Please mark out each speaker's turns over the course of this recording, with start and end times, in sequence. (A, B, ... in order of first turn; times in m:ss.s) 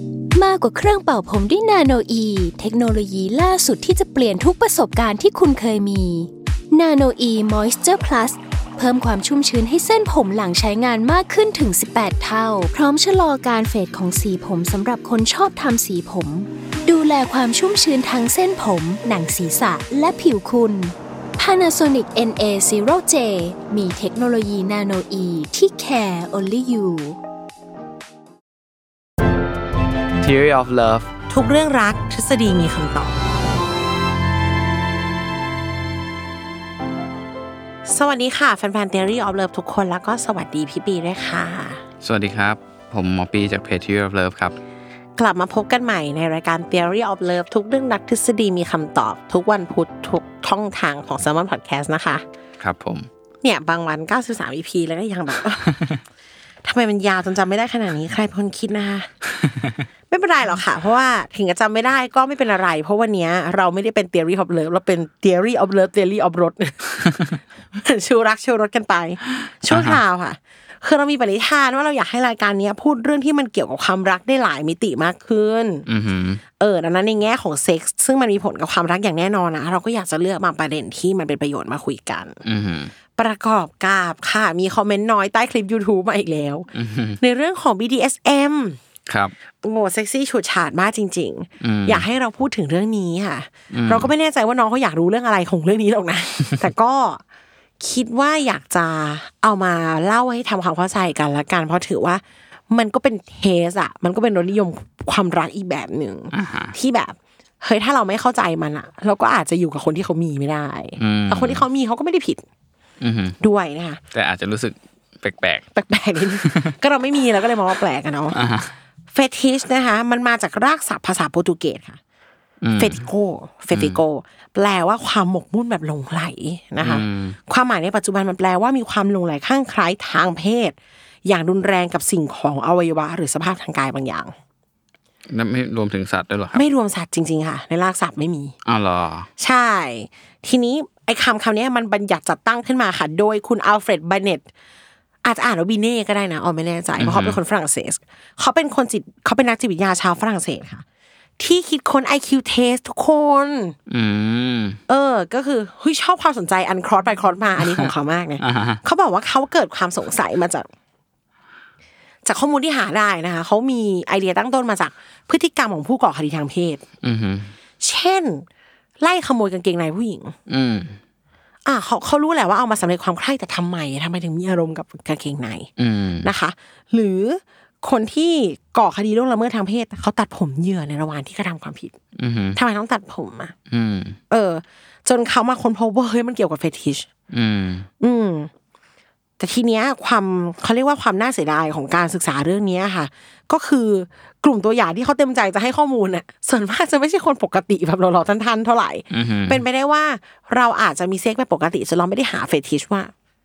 0:00.4-0:27.2 A
0:30.2-0:31.1 B
0:31.3-0:33.2 C
0:37.9-0:41.8 C
0:42.0-0:44.6 B
0:45.2-0:52.2 C
0:52.6-0:53.1 B
0:53.4-0:55.8 C
0:55.6-0:56.0 B
0:56.6-0:59.1 C
0:59.4-0:59.8 B
1:00.1-1:15.9 C
1:09.7-1:10.0 B
1:15.9-1:16.4 B
1:16.6-1:22.4 C
1:22.4-1:22.9 B
1:23.2-1:26.7 C
1:26.7-1:27.2 B
1:27.2-1:28.8 C
1:29.1-1:29.3 B
1:29.6-1:37.2 C
1:31.6-1:32.0 B
1:33.7-1:34.1 B
1:37.8-1:52.4 C
1:46.3-1:46.7 B
1:51.0-1:51.6 B
1:53.0-1:53.4 B
1:53.4-1:54.0 C
1:54.1-1:55.6 B
1:55.7-1:58.4 C
1:56.4-1:56.7 B
1:58.3-1:58.7 B
1:59.1-2:02.0 C
2:02.6-2:03.0 B
2:02.8-2:14.3 C
2:03.7-2:04.0 B
2:06.8-2:07.4 B
2:15.3-2:16.6 B
2:16.5-2:18.5 C
2:18.6-2:19.3 B
2:19.4-2:24.4 C
2:25.2-2:30.8 C
2:27.0-2:27.4 B
2:31.4-2:33.8 C
2:33.9-2:34.8 B
2:34.9-2:40.7 C
2:37.6-2:38.8 B
2:42.2-2:46.8 C
2:47.0-2:47.5 B
2:47.8-2:48.4 C
2:49.0-2:50.3 C
2:50.5-2:51.0 B
2:51.7-2:55.7 C
2:55.8-2:56.3 B
2:56.2-3:02.0 C
3:02.2-3:02.6 B
3:02.5-3:03.5 C
3:03.7-3:04.2 B
3:04.3-3:07.1 C
3:07.3-3:07.9 B
3:08.0-3:08.5 C
3:09.4-3:23.1 C
3:19.1-3:19.6 B